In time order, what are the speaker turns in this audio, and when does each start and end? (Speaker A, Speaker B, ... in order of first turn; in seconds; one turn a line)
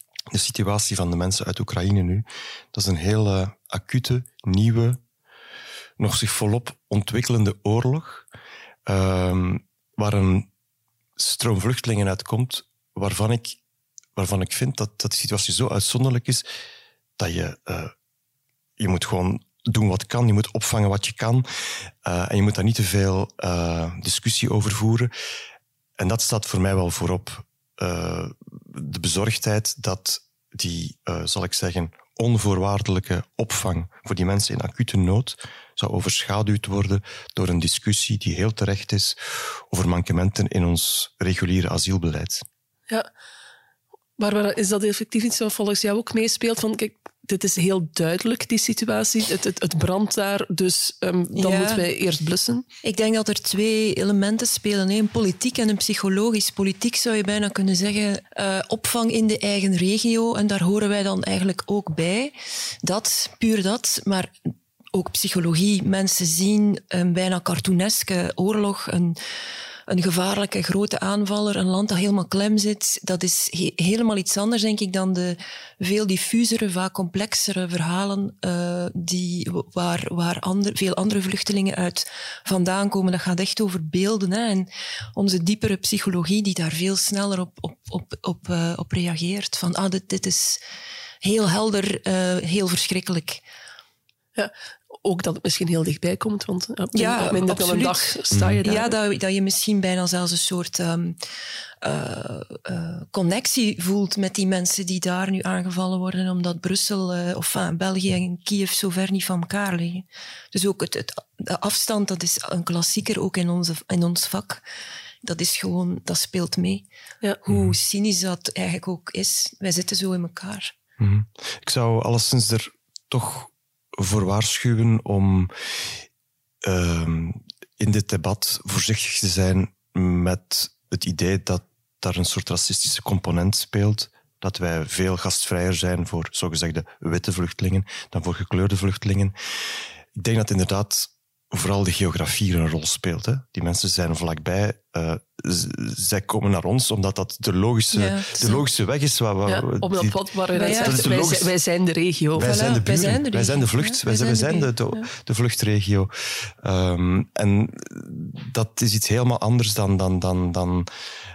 Speaker A: 0.3-5.0
Speaker A: 6.0-8.3
Speaker A: 8.9-10.5
Speaker A: 11.2-13.6
Speaker A: 14.2-16.4
Speaker A: 17.2-17.9
Speaker A: 18.8-21.4
Speaker A: 22.0-25.1
Speaker A: 26.0-42.4
Speaker B: 44.2-52.6
Speaker C: 51.3-51.8
Speaker C: 52.8-64.3
Speaker C: 64.9-69.2
Speaker C: 69.9-90.6
Speaker C: 91.2-93.4
Speaker B: 94.3-98.9
Speaker C: 96.9-101.2
Speaker A: 98.3-98.6
Speaker C: 101.8-114.6
Speaker C: 115.2-116.8
Speaker C: 117.4-120.7
Speaker A: 117.5-117.8
Speaker A: 121.0-126.0
Speaker A: 126.6-139.3
Speaker A: 140.1-151.5
Speaker C: 147.9-148.6
Speaker B: 149.5-152.5
Speaker C: 150.6-151.1
Speaker A: 152.3-160.9
Speaker C: 152.4-154.7